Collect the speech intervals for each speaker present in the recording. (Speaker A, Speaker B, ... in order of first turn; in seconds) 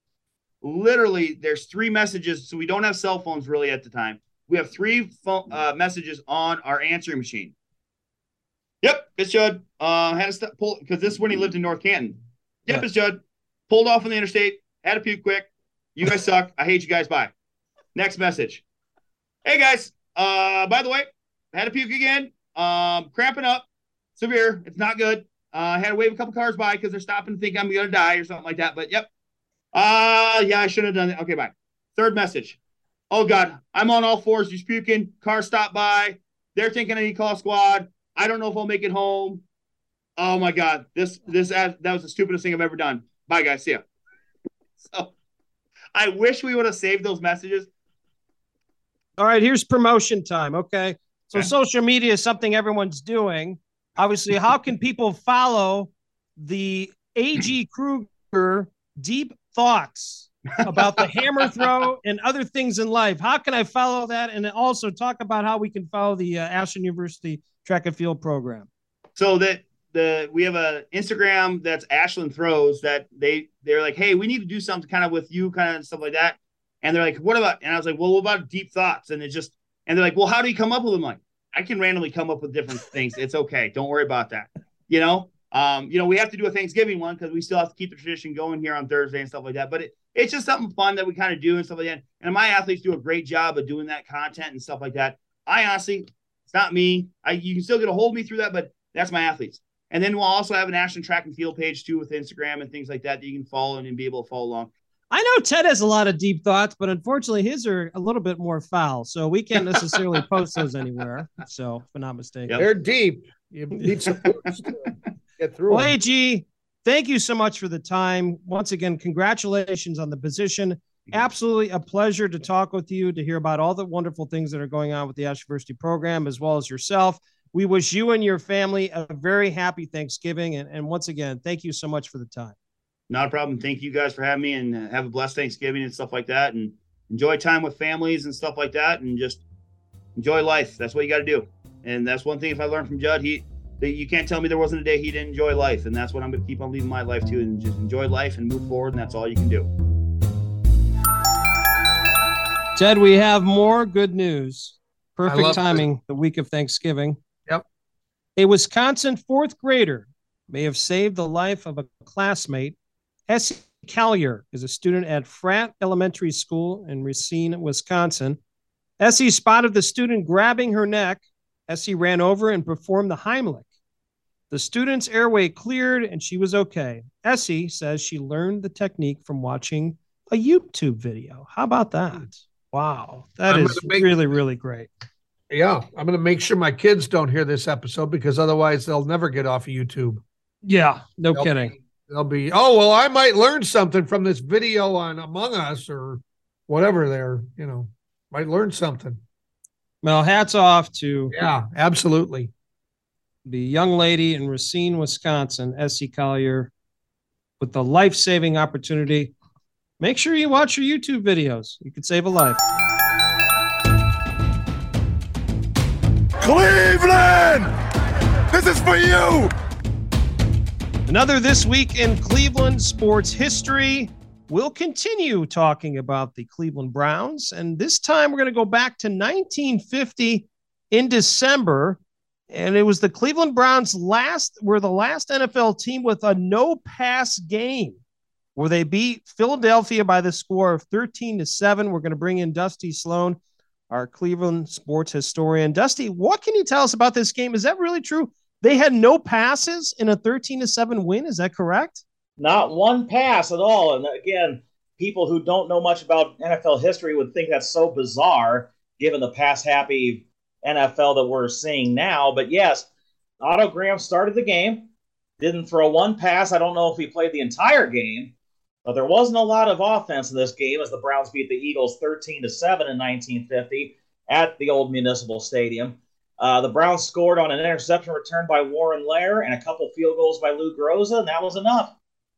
Speaker A: 0.6-7.5, 8.8-17.3, 17.9-18.6, 19.4-29.1, 29.7-32.6, 33.1-39.4, 40.2-43.8, 44.9-45.1, 45.9-47.7, 69.2-104.7, 133.1-139.4, 140.2-149.7
Speaker B: 49.2-68.7, 105.1-112.6, 115.7-132.6, 152.8-157.2, 158.4-162.8, 163.3-168.4, 169.0-173.7, 174.5-184.9, 190.6-191.7, 200.0-201.3, 203.5-206.7, 207.6-209.3, 210.0-212.6, 221.1-238.0, 238.6-243.4, 243.9-252.0
Speaker C: 112.5-114.8, 115.4-115.9, 155.3-155.9, 183.5-184.2, 185.5-190.2, 191.3-199.2, 201.3-202.5
Speaker D: 216.4-217.7, 218.5-219.5
Speaker E: 252.4-262.9, 263.4-264.9, 265.4-268.3, 268.9-282.0